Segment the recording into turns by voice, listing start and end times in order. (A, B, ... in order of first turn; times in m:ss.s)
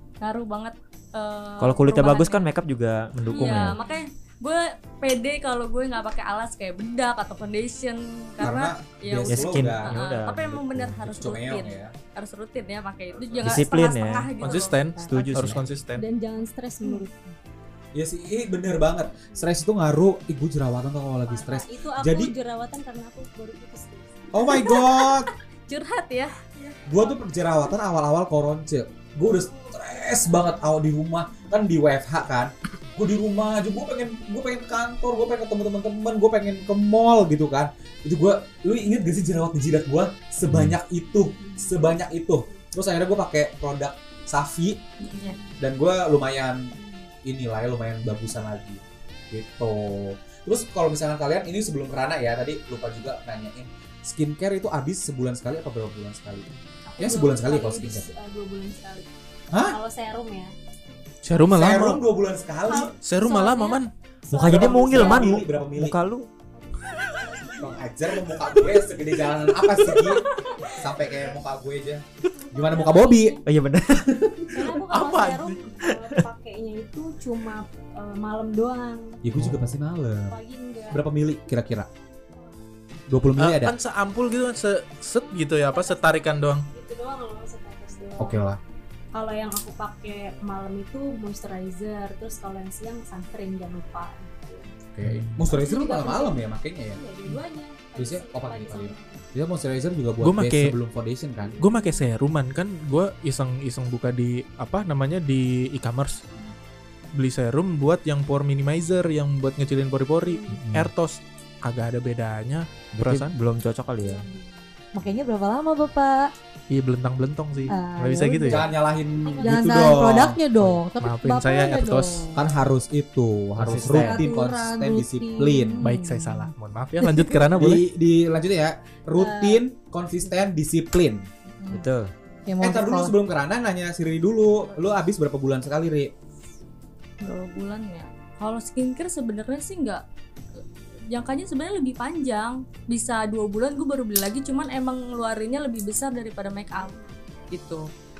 0:00.2-0:02.5 A
0:01.6-0:03.8 B
0:03.3-0:14.8 A
0:03.4-0:04.0 C
0:08.4-0:09.9 D
0:09.2-0:11.0 B
0:10.9-0:11.9 D
0:13.3-0:13.6 D
0:13.4-0:14.3 B
0:14.4-0:16.0 E
0:15.1-0:15.6 B
0:16.0-0:17.2 C
0:17.9-0:22.3 D
0:21.3-0:24.3 C
0:24.3-0:25.3 D
0:24.5-0:26.4 A
0:26.6-0:27.2 C
0:26.9-0:44.8 D
0:29.2-0:30.6 C
0:40.5-0:40.8 B
0:41.4-0:41.8 C
0:45.0-0:45.4 A
0:45.6-0:58.1 D
0:56.9-0:59.1 C
0:59.5-0:59.8 D
0:59.6-1:00.5 C
1:01.2-1:02.0 E
1:01.5-1:03.0 D
1:02.6-1:03.8 C
1:03.0-1:03.9 E
1:04.3-1:06.3 B
1:04.3-1:05.4 C
1:04.3-1:06.0 D
1:06.7-1:07.8 C
1:07.6-1:13.4 D
1:09.8-1:11.1 C
1:12.5-1:13.4 C
1:13.4-1:14.2 B
1:14.0-1:14.5 D
1:14.5-1:19.2 C
1:14.9-1:15.7 E
1:15.9-1:16.2 B
1:19.2-1:20.4 D
1:19.4-1:19.7 B
1:20.3-1:21.0 C
1:20.9-1:21.9 D
1:23.1-1:23.8 D
1:23.4-1:26.7 E
1:25.2-1:28.4 C
1:28.2-1:28.6 D
1:29.1-1:34.7 C
1:35.0-1:37.0 D
1:35.0-1:35.3 E
1:35.5-1:39.2 C
1:38.0-1:41.6 D
1:40.2-1:40.8 E
1:41.4-1:42.0 C
1:41.6-1:46.2 E
1:47.2-1:53.3 E
1:50.2-1:50.6 C
1:50.6-1:50.9 B
1:52.9-1:54.3 B
1:54.0-1:54.7 C
1:54.9-1:56.3 F
1:56.7-1:58.7 E
1:57.7-1:58.6 F
1:58.5-2:00.4 D
1:59.2-2:00.1 C
1:59.4-2:02.4 F
2:00.6-2:02.3 E
2:02.4-2:05.8 D
2:03.6-2:04.3 B
2:03.9-2:06.5 F
2:05.8-2:07.8 E
2:07.5-2:11.3 D
2:09.2-2:09.6 C
2:11.7-2:12.1 B
2:12.5-2:13.2 F
2:12.6-2:16.1 D
2:17.2-2:20.0 A
2:21.1-2:27.0 A
2:27.5-2:27.9 A